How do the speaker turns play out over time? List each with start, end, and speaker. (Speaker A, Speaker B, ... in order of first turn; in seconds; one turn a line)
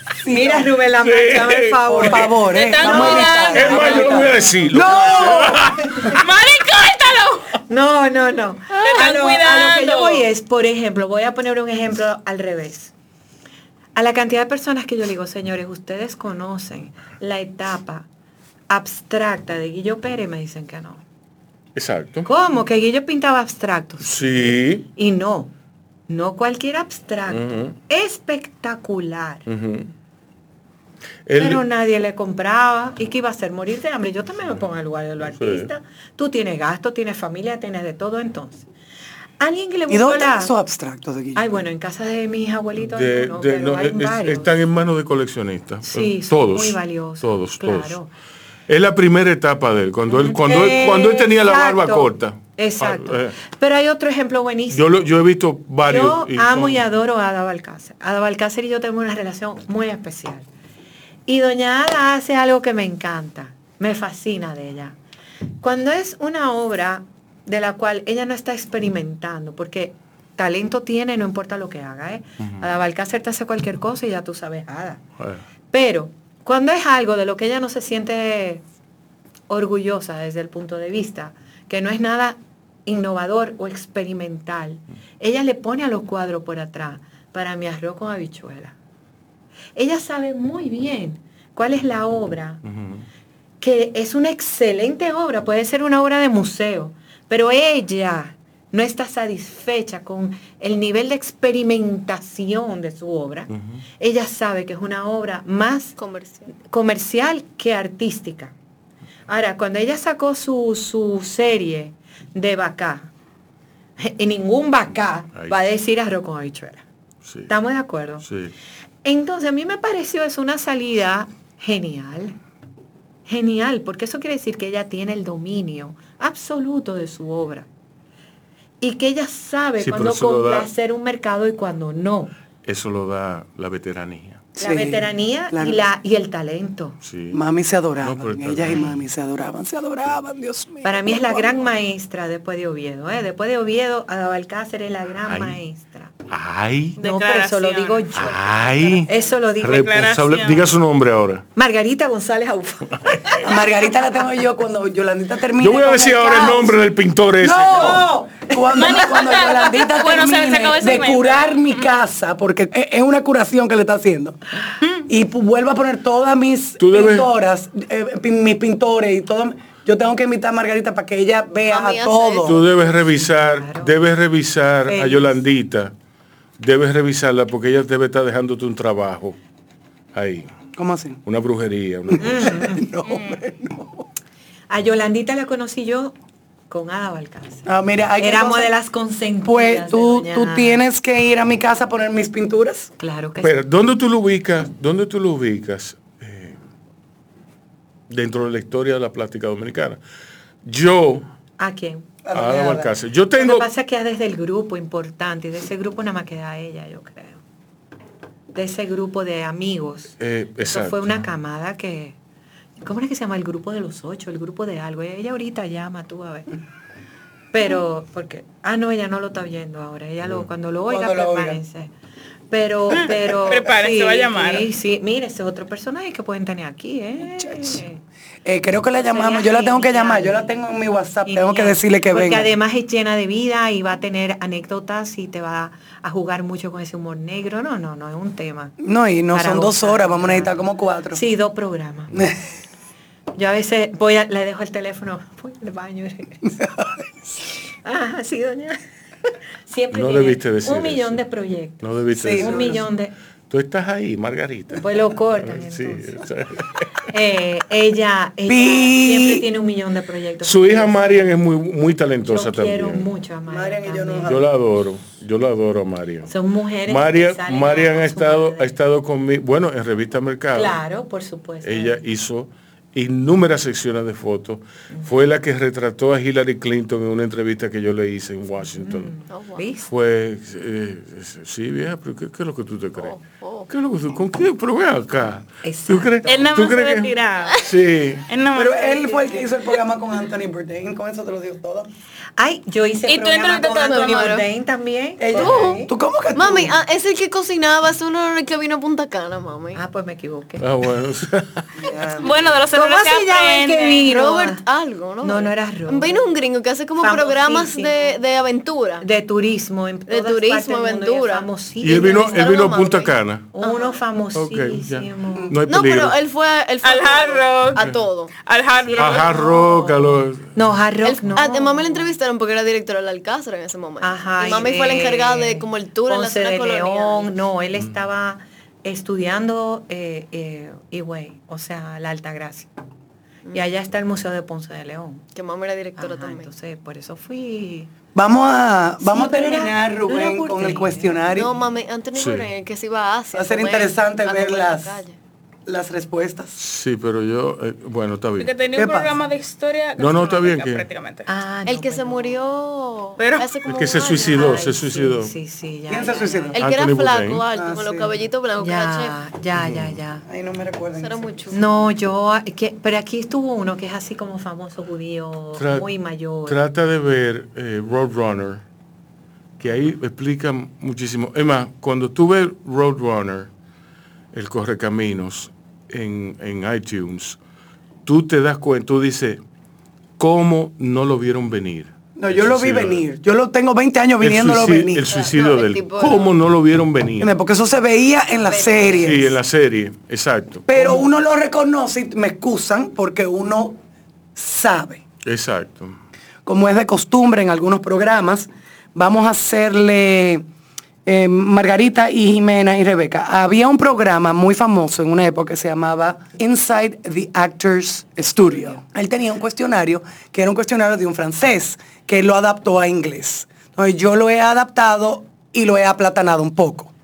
Speaker A: 0.2-0.7
Speaker B: 0.3-4.1
Speaker C: 1.0-2.3
Speaker A: 1.9-5.7
Speaker D: 2.5-4.3
Speaker C: 3.5-6.2
Speaker D: 6.0-7.6
Speaker B: 7.7-12.9
Speaker D: 8.8-10.3
Speaker B: 13.9-18.1
Speaker B: 18.7-21.0
Speaker C: 21.8-22.3
Speaker B: 22.3-25.5
Speaker C: 24.0-24.9
Speaker B: 26.1-29.5
Speaker C: 27.3-27.8
Speaker C: 29.5-29.9
Speaker C: 31.3-31.6
Speaker B: 31.4-38.7
Speaker C: 35.2-35.7
Speaker B: 39.4-40.5
Speaker A: 39.9-41.5
Speaker B: 41.4-44.5
Speaker C: 42.8-48.0
Speaker B: 45.9-48.1
Speaker C: 48.7-53.4
Speaker B: 50.1-54.9
Speaker C: 54.7-56.8
Speaker B: 55.8-60.5
Speaker B: 61.3-65.0
Speaker B: 65.6-75.0
Speaker B: 75.7-78.6
Speaker B: 79.5-88.8
Speaker B: 89.8-92.6
Speaker C: 92.7-93.0
Speaker B: 93.6-106.0
Speaker E: 106.0-106.5
Speaker B: 106.7-108.5
Speaker B: 109.3-113.1
Speaker B: 114.0-116.8
Speaker C: 115.3-115.7
Speaker C: 117.2-117.5
Speaker B: 117.5-118.3
Speaker C: 118.2-118.5
Speaker B: 119.0-122.4
Speaker B: 123.3-127.7
Speaker B: 128.8-132.3
Speaker C: 129.8-130.7
Speaker C: 132.7-134.5
Speaker A: 134.6-135.8
Speaker B: 134.6-137.0
Speaker C: 137.0-137.4
Speaker A: 137.3-141.7
Speaker C: 138.0-139.0
Speaker B: 138.7-138.9
Speaker B: 140.8-146.1
Speaker C: 145.3-145.6
Speaker C: 146.3-147.0
Speaker D: 147.0-148.1
Speaker B: 147.0-149.9
Speaker C: 148.1-151.4
Speaker D: 149.7-150.6
Speaker B: 151.6-153.5
Speaker C: 153.0-153.5
Speaker A: 153.4-156.7
Speaker C: 155.6-158.1
Speaker A: 157.4-164.4
Speaker B: 157.7-159.0
Speaker D: 158.7-161.7
Speaker A: 165.1-172.6
Speaker C: 166.8-167.3
Speaker E: 171.7-172.6
Speaker C: 172.4-175.9
Speaker B: 173.1-173.9
Speaker B: 174.9-175.4
Speaker C: 176.6-179.4
Speaker C: 180.1-180.5
Speaker A: 180.8-181.2
Speaker C: 181.2-182.7
Speaker A: 182.2-184.1
Speaker B: 182.2-182.8
Speaker B: 184.7-186.1
Speaker B: 186.7-187.7
Speaker A: 187.7-188.7
Speaker B: 188.2-190.8
Speaker A: 189.5-192.9
Speaker B: 193.0-193.6
Speaker C: 193.4-196.6
Speaker C: 198.1-200.0
Speaker C: 200.7-201.3
Speaker B: 201.6-202.1
Speaker A: 202.2-202.9
Speaker C: 202.3-203.7
Speaker B: 203.3-207.4
Speaker B: 208.5-212.2
Speaker C: 210.2-211.2
Speaker B: 212.8-216.5
Speaker B: 217.5-221.9
Speaker A: 220.9-221.6
Speaker B: 222.5-228.0
Speaker D: 223.5-224.7
Speaker A: 227.4-227.8
Speaker A: 228.4-232.5
Speaker B: 229.0-230.5
Speaker B: 231.2-238.8
Speaker A: 238.8-241.2
Speaker B: 239.3-240.6
Speaker B: 241.1-242.2
Speaker B: 243.4-246.7
Speaker B: 247.8-248.8
Speaker B: 249.7-253.1
Speaker C: 249.9-251.2
Speaker C: 251.8-252.8
Speaker A: 252.1-252.8
Speaker C: 253.5-256.9
Speaker B: 254.8-256.2
Speaker B: 257.1-261.3
Speaker A: 258.5-259.5
Speaker C: 260.4-263.1
Speaker B: 262.3-264.4
Speaker A: 263.5-264.5
Speaker C: 264.3-266.3
Speaker B: 266.3-268.7
Speaker C: 266.9-270.8
Speaker B: 270.5-272.0
Speaker C: 271.6-279.1
Speaker B: 278.8-279.9
Speaker E: 279.3-279.7
Speaker C: 279.9-288.3
Speaker E: 283.0-283.7
Speaker B: 285.6-286.5
Speaker D: 286.3-287.7
Speaker D: 288.3-289.5
Speaker A: 288.5-291.9
Speaker B: 292.4-295.9
Speaker D: 293.1-294.4
Speaker E: 293.7-294.4
Speaker A: 295.2-296.8
Speaker E: 295.4-299.8
Speaker B: 299.8-300.7
Speaker C: 300.6-301.9
Speaker A: 301.8-302.3
Speaker D: 302.2-304.1
Speaker B: 302.7-304.6
Speaker E: 304.1-309.1
Speaker B: 305.2-306.3
Speaker B: 307.0-308.2
Speaker B: 309.0-312.8
Speaker E: 310.1-314.0
Speaker C: 311.8-313.5
Speaker B: 313.5-315.5
Speaker C: 314.4-316.2
Speaker E: 315.7-318.3
Speaker D: 316.8-317.9
Speaker D: 318.4-319.4
Speaker C: 319.0-320.5
Speaker B: 319.2-322.1
Speaker E: 321.0-327.4
Speaker B: 324.0-332.7
Speaker B: 333.5-335.3
Speaker E: 335.4-336.5
Speaker B: 336.0-337.9
Speaker A: 338.1-341.5
Speaker B: 339.0-341.3
Speaker E: 341.3-345.2
Speaker C: 342.1-342.5
Speaker A: 343.3-345.0
Speaker A: 345.7-346.6
Speaker C: 346.6-348.5
Speaker D: 348.4-351.3
Speaker A: 348.8-349.1
Speaker C: 350.0-350.9
Speaker B: 351.3-352.4
Speaker E: 351.7-354.7
Speaker D: 353.2-353.5
Speaker C: 353.6-355.3
Speaker B: 354.2-356.5
Speaker A: 355.9-356.6
Speaker E: 356.5-359.2
Speaker C: 356.6-357.4
Speaker A: 357.5-358.1
Speaker B: 358.6-360.2
Speaker C: 359.6-360.0
Speaker A: 360.3-361.5
Speaker E: 361.0-361.6
Speaker B: 361.5-366.6
Speaker C: 365.6-365.9
Speaker C: 366.5-368.6
Speaker C: 369.6-373.5
Speaker C: 374.3-377.4
Speaker C: 378.1-379.4
Speaker C: 380.2-383.1
Speaker A: 382.2-385.1
Speaker C: 384.2-387.3
Speaker E: 385.1-386.3
Speaker A: 387.2-389.3
Speaker E: 388.5-389.2
Speaker C: 389.0-391.0
Speaker A: 390.7-393.8
Speaker A: 394.4-395.0
Speaker C: 395.2-396.0
Speaker A: 396.5-400.4
Speaker A: 401.1-416.9